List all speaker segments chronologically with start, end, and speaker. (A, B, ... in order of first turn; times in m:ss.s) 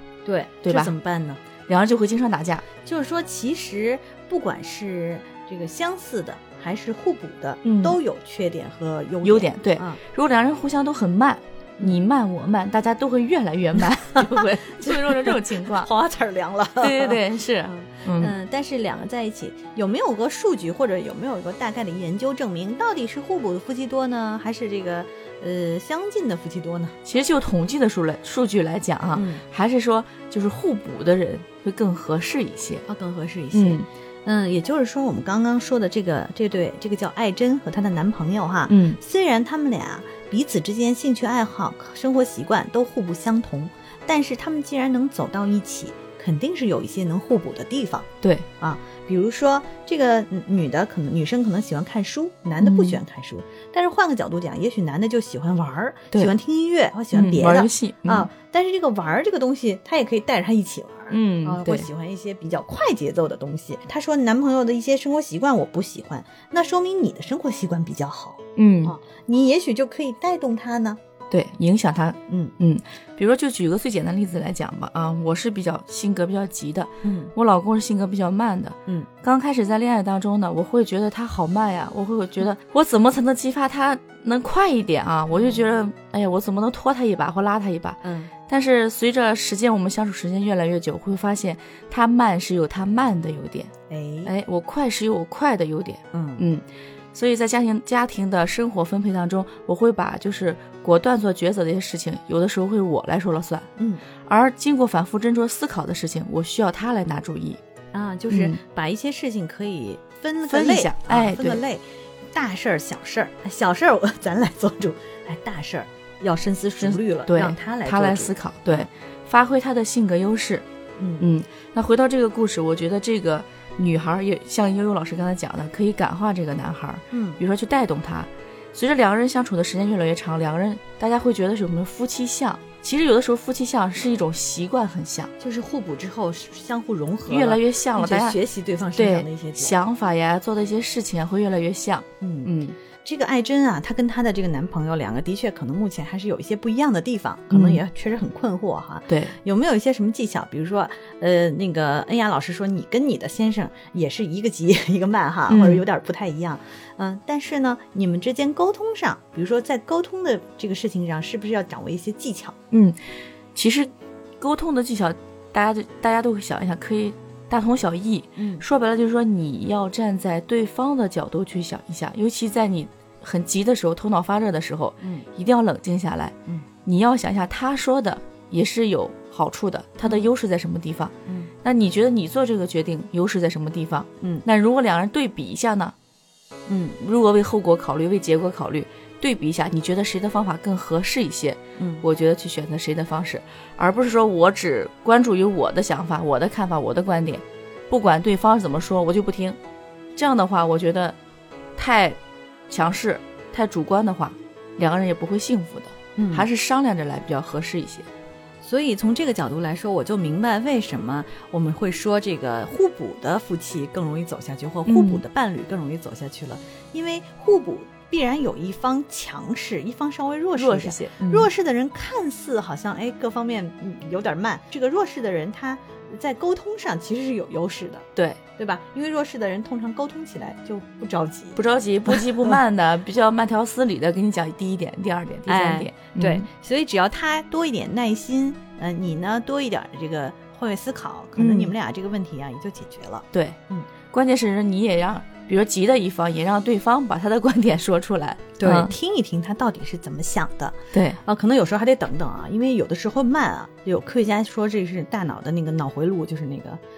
0:00.2-0:01.4 A
0:00.6-0:00.9 B
0:01.7-0:02.6 B
0:02.8-0:10.0 A
0:07.6-0:08.0 B
0:09.2-0:15.9 B
0:14.2-0:27.0 A
0:16.8-0:18.3 B
0:27.0-0:32.9 B
0:29.1-0:29.4 A
0:32.9-0:48.1 A
0:33.5-0:33.9 B
0:38.7-0:39.0 B
0:48.6-1:11.0 A
0:52.6-0:53.0 B
0:57.1-0:58.3 B
1:01.1-1:01.9 B
1:08.6-1:09.0 B
1:11.3-1:33.7 B
1:12.3-1:12.6 A
1:17.0-1:17.3 A
1:25.3-1:25.6 A
1:28.0-1:28.3 A
1:33.9-1:34.3 A
1:34.2-1:43.7 B
1:36.1-1:36.5 A
1:43.8-1:44.0 A
1:44.2-1:47.6 B
1:47.9-1:58.9 A
1:48.3-1:48.6 B
1:50.5-1:51.6 B
1:56.8-2:00.7 B
2:01.0-2:01.3 A
2:01.2-2:15.3 B
2:07.1-2:07.4 A
2:15.4-2:19.8 A
2:17.3-2:18.4 B
2:19.0-2:22.8 B
2:22.2-2:42.6 A
2:27.5-2:27.8 B
2:29.1-2:29.4 B
2:35.5-2:35.8 B
2:42.7-2:43.0 B
2:43.6-2:56.3 B
2:48.4-2:48.6 A
2:55.0-2:55.3 A
2:56.8-3:05.9 B
3:00.0-3:00.3 A
3:04.2-3:04.5 A
3:06.7-3:07.0 A
3:07.0-3:19.6 B
3:11.8-3:12.1 A
3:20.2-3:21.2 B
3:21.8-3:22.2 B
3:22.7-3:28.1 B
3:26.2-3:26.5 A
3:28.6-3:48.1 A
3:34.9-3:35.2 B
3:40.5-3:41.5 B
3:48.6-3:52.6 A
3:51.6-3:56.5 B
3:55.5-4:03.9 A
4:01.4-4:01.7 B
4:03.3-4:03.6 B
4:04.1-4:08.9 B
4:08.6-4:16.8 A
4:10.9-4:11.2 B